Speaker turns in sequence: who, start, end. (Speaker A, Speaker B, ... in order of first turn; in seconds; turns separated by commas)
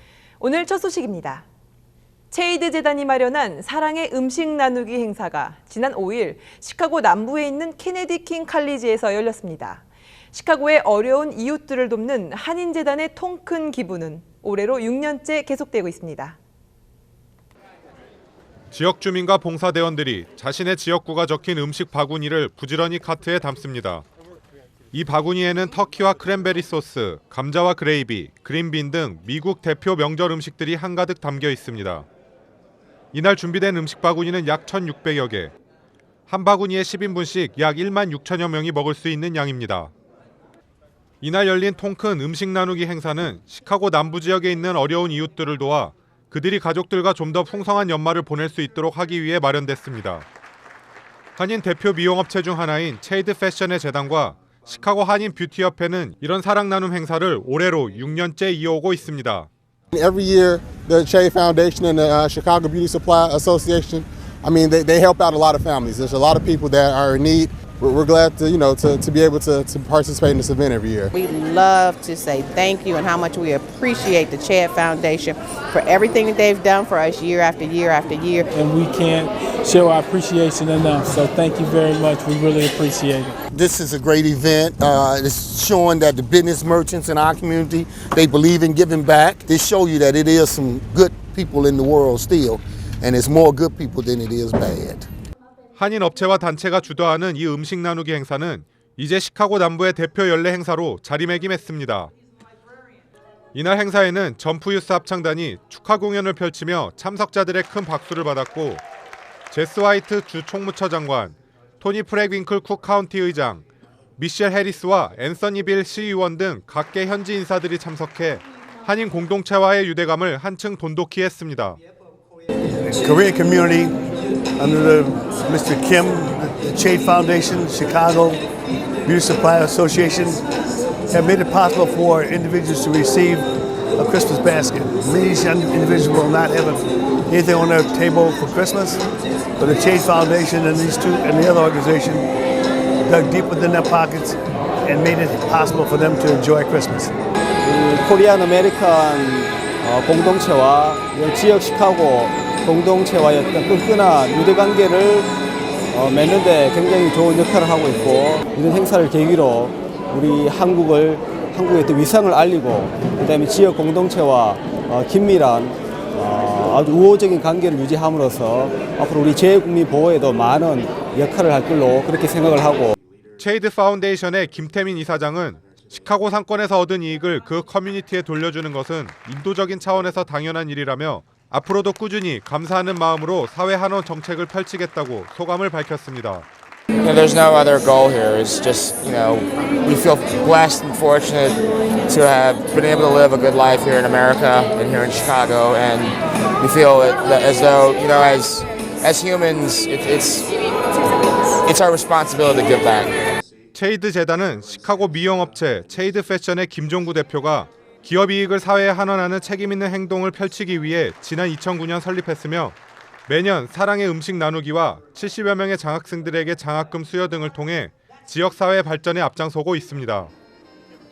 Speaker A: 0.4-1.4, Speaker A: 2.3-16.4, Speaker B: 18.7-24.0, Speaker B: 24.9-32.0, Speaker B: 33.1-35.5, Speaker B: 36.3-39.9, Speaker B: 41.2-50.2, Speaker B: 51.4-59.5, Speaker C: 59.9-71.1, Speaker D: 71.1-78.4, Speaker E: 78.5-83.4, Speaker F: 83.5-95.1, Speaker B: 95.8-102.1, Speaker B: 103.5-108.8, Speaker B: 109.5-113.6, Speaker B: 114.2-121.8, Speaker G: 122.8-123.9, Speaker G: 124.6-128.4, Speaker G: 129.1-130.4, Speaker G: 131.1-139.0, Speaker G: 139.6-142.3, Speaker G: 143.0-147.1, Speaker H: 147.6-155.3, Speaker H: 155.9-172.9, Speaker B: 173.4-186.4, Speaker I: 187.0-200.5, Speaker I: 201.6-203.1, Speaker B: 203.7-212.8, Speaker B: 213.3-220.3